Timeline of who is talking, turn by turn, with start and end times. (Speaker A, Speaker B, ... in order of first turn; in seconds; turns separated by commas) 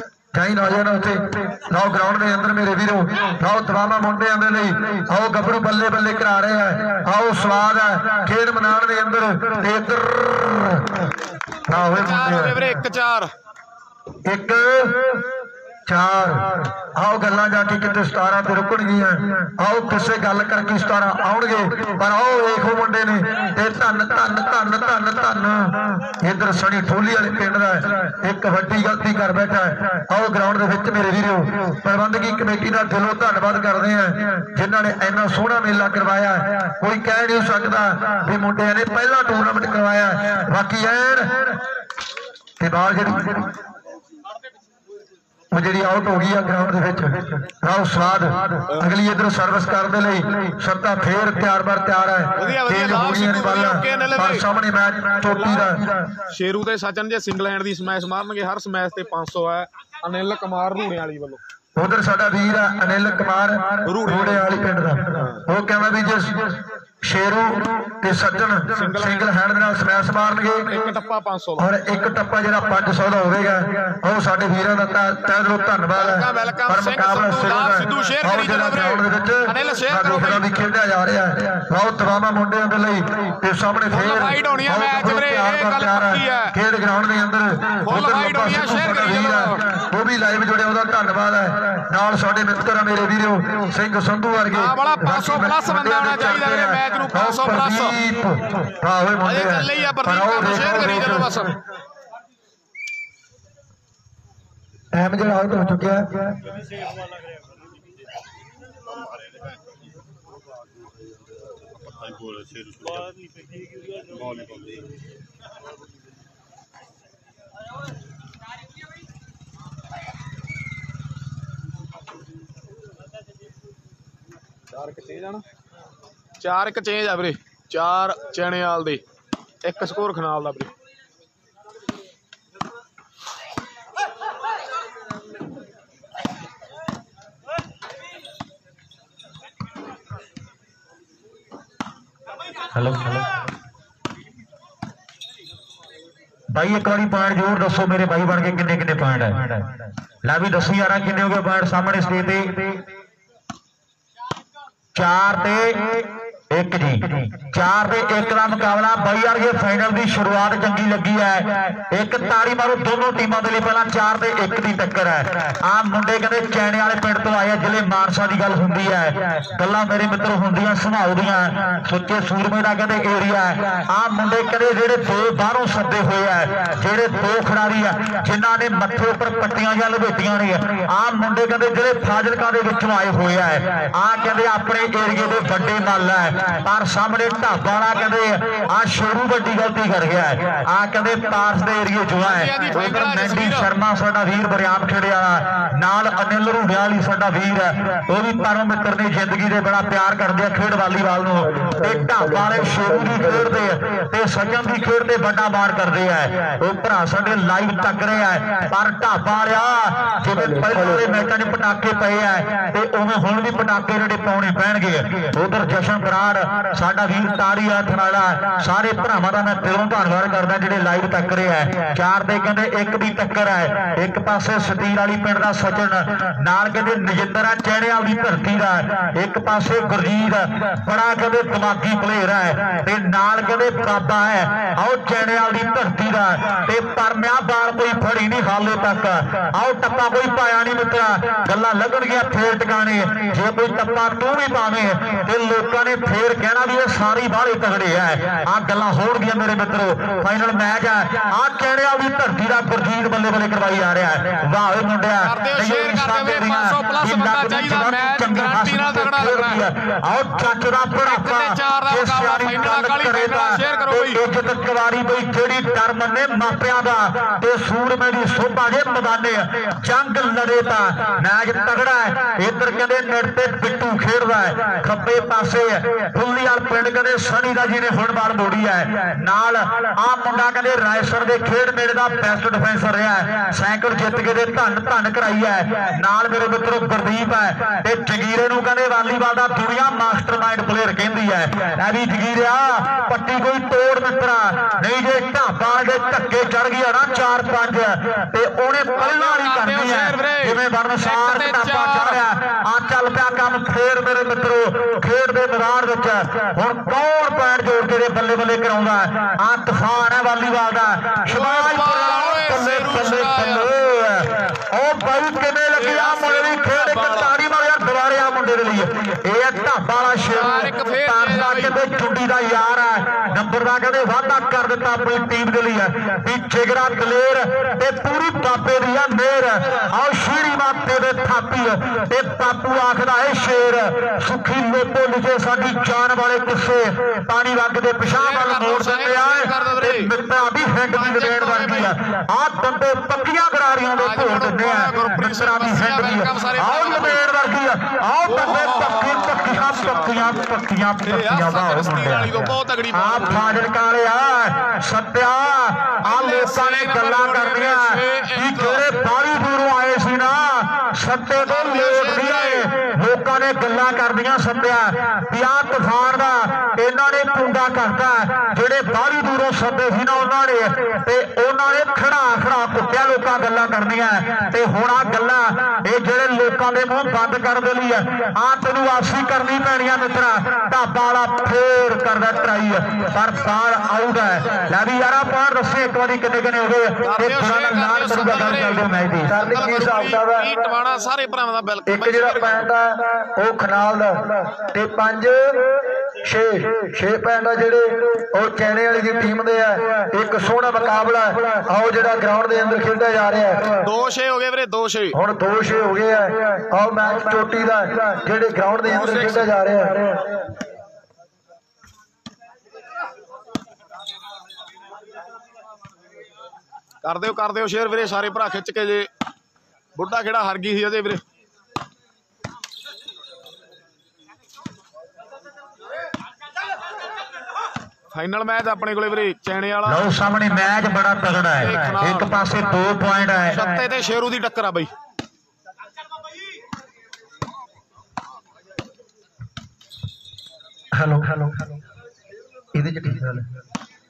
Speaker A: 0.3-11.1, Speaker A: 11.7-12.6, Speaker B: 11.7-13.3, Speaker A: 14.2-15.2, Speaker A: 15.9-41.5, Speaker A: 42.6-43.5, Speaker A: 45.5-55.9, Speaker B: 48.7-49.0, Speaker B: 52.4-54.4, Speaker B: 55.3-61.4, Speaker A: 61.8-70.8, Speaker B: 63.8-64.5, Speaker B: 65.2-65.4, Speaker B: 68.8-69.3, Speaker B: 70.7-71.7, Speaker A: 71.6-101.5, Speaker B: 75.9-80.5, Speaker B: 83.9-86.5, Speaker B: 87.8-89.7, Speaker B: 94.5-98.0, Speaker B: 99.2-101.5, Speaker A: 104.9-106.3, Speaker B: 124.7-125.5, Speaker B: 126.4-129.0, Speaker B: 129.6-130.7, Speaker C: 142.7-143.3, Speaker C: 146.5-149.7, Speaker C: 150.2-152.7, Speaker C: 154.9-389.4, Speaker B: 192.2-193.7, Speaker A: 201.5-203.6, Speaker B: 255.2-259.6, Speaker B: 261.1-264.2, Speaker B: 299.0-302.2, Speaker B: 311.3-313.7, Speaker B: 315.8-317.3, Speaker B: 320.2-321.7, Speaker B: 338.1-340.1, Speaker B: 340.9-341.9, Speaker B: 344.0-347.2, Speaker B: 348.3-350.5, Speaker B: 351.1-353.6, Speaker B: 356.1-358.8, Speaker B: 361.4-362.7, Speaker B: 387.0-388.9, Speaker A: 389.3-390.5, Speaker B: 389.4-392.6, Speaker A: 391.9-395.6, Speaker A: 396.2-403.8, Speaker B: 403.8-405.2, Speaker A: 405.1-410.2, Speaker B: 408.9-409.5, Speaker B: 417.0-419.1, Speaker B: 419.9-421.2, Speaker B: 428.1-430.2, Speaker C: 429.9-433.6, Speaker B: 431.6-432.4, Speaker B: 433.4-434.9, Speaker A: 440.9-441.6, Speaker A: 442.7-443.5